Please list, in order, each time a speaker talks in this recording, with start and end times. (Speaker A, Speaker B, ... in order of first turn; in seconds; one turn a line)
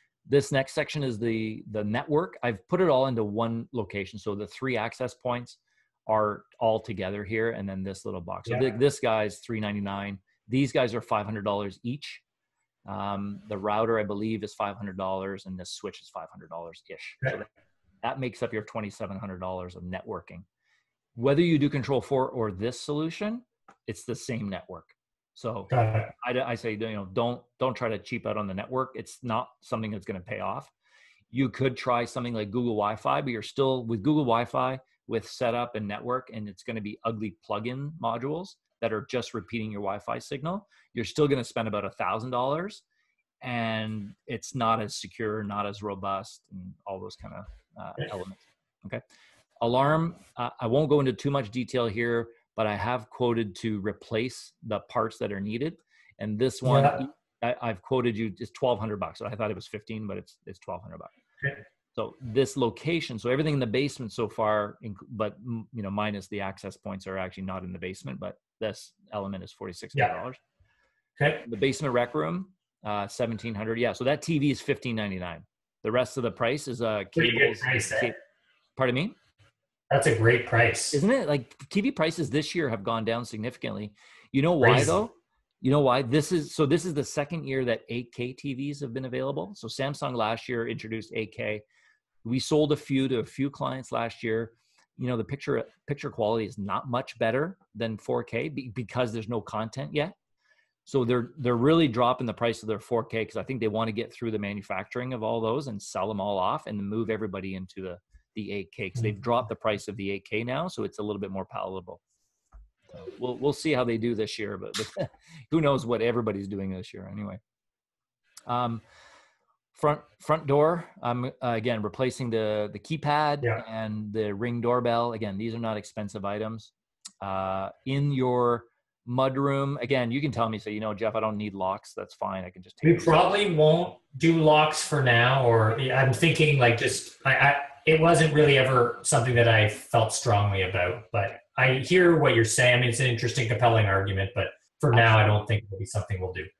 Speaker A: 0.3-12.2
Speaker A: 12.8-17.5
Speaker A: 18.0-20.4
Speaker A: 21.1-30.7
Speaker B: 25.7-26.1
Speaker A: 31.3-42.8
Speaker A: 43.4-49.0
Speaker A: 49.6-61.1
Speaker B: 56.6-57.0
Speaker A: 61.9-70.4
Speaker A: 71.4-78.2
Speaker B: 77.2-78.1
Speaker A: 78.8-79.2
Speaker B: 79.9-81.0
Speaker A: 80.9-91.6
Speaker B: 84.6-84.9
Speaker A: 92.2-100.1
Speaker A: 100.8-112.0
Speaker A: 112.9-117.4
Speaker A: 118.5-118.8
Speaker A: 119.7-133.2
Speaker B: 132.8-146.5